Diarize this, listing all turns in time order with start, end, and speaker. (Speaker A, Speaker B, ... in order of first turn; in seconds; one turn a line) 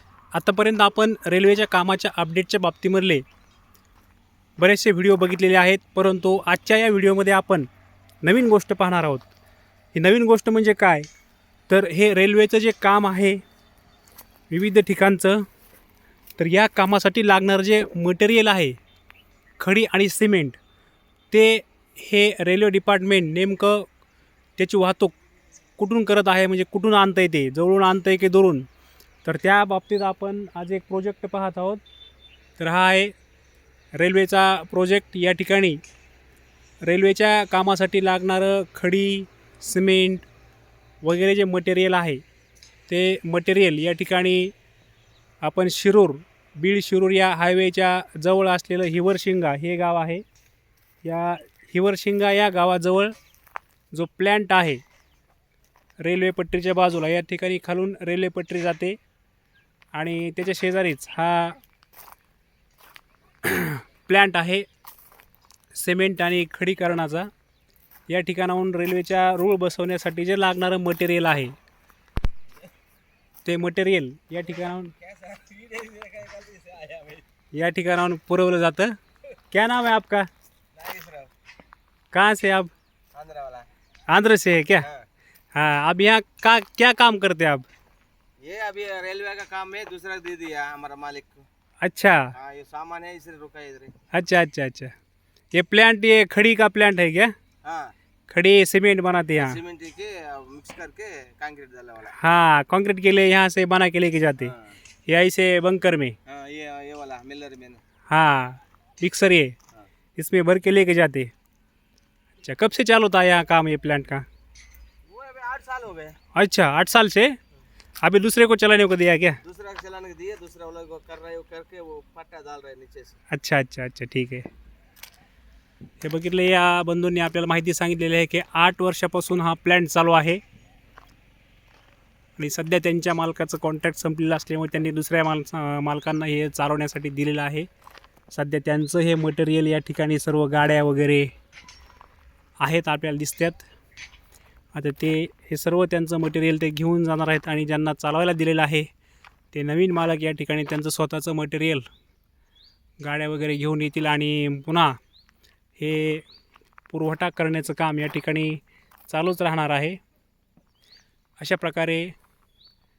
Speaker A: 0.3-3.2
Speaker A: 4.6-7.7
Speaker A: 8.2-9.3
Speaker A: 9.9-11.1
Speaker A: 11.7-13.4
Speaker A: 14.5-15.4
Speaker A: 16.4-18.8
Speaker A: 19.6-20.6
Speaker A: 21.3-23.9
Speaker A: 24.6-25.1
Speaker A: 25.8-28.7
Speaker A: 29.2-31.8
Speaker A: 32.6-33.1
Speaker A: 33.9-35.8
Speaker A: 36.8-40.3
Speaker A: 41.0-42.2
Speaker A: 42.9-44.5
Speaker A: 45.4-50.2
Speaker A: 51.0-53.1
Speaker A: 53.9-54.8
Speaker A: 56.0-59.0
Speaker A: 59.9-61.6
Speaker A: 63.4-64.7
Speaker A: 65.7-67.3
Speaker A: 68.1-71.5
Speaker A: 73.4-74.9
Speaker B: 74.9-77.2
Speaker A: 77.5-79.0
Speaker A: 79.5-80.3
Speaker B: 80.7-81.3
Speaker A: 82.1-82.7
Speaker B: 83.1-83.7
Speaker A: 84.1-84.9
Speaker B: 84.8-85.1
Speaker A: 85.5-87.7
Speaker B: 88.4-91.4
Speaker A: 91.8-92.3
Speaker B: 92.3-93.9
Speaker A: 94.1-94.9
Speaker A: 95.5-97.3
Speaker B: 97.6-97.9
Speaker A: 98.3-99.6
Speaker B: 99.3-102.2
Speaker A: 102.1-104.5
Speaker B: 104.4-104.8
Speaker A: 105.1-106.2
Speaker B: 106.3-107.8
Speaker A: 108.1-109.5
Speaker A: 110.2-111.3
Speaker A: 112.4-114.2
Speaker B: 115.1-116.2
Speaker A: 116.3-117.3
Speaker A: 118.0-119.4
Speaker B: 119.4-123.1
Speaker A: 123.3-124.5
Speaker A: 126.0-130.4
Speaker A: 132.4-137.7
Speaker A: 138.3-141.3
Speaker A: 142.6-143.6
Speaker A: 144.7-148.9
Speaker A: 149.5-151.8
Speaker A: 153.0-155.0
Speaker A: 155.8-156.2
Speaker A: 156.9-160.0
Speaker A: 161.4-162.1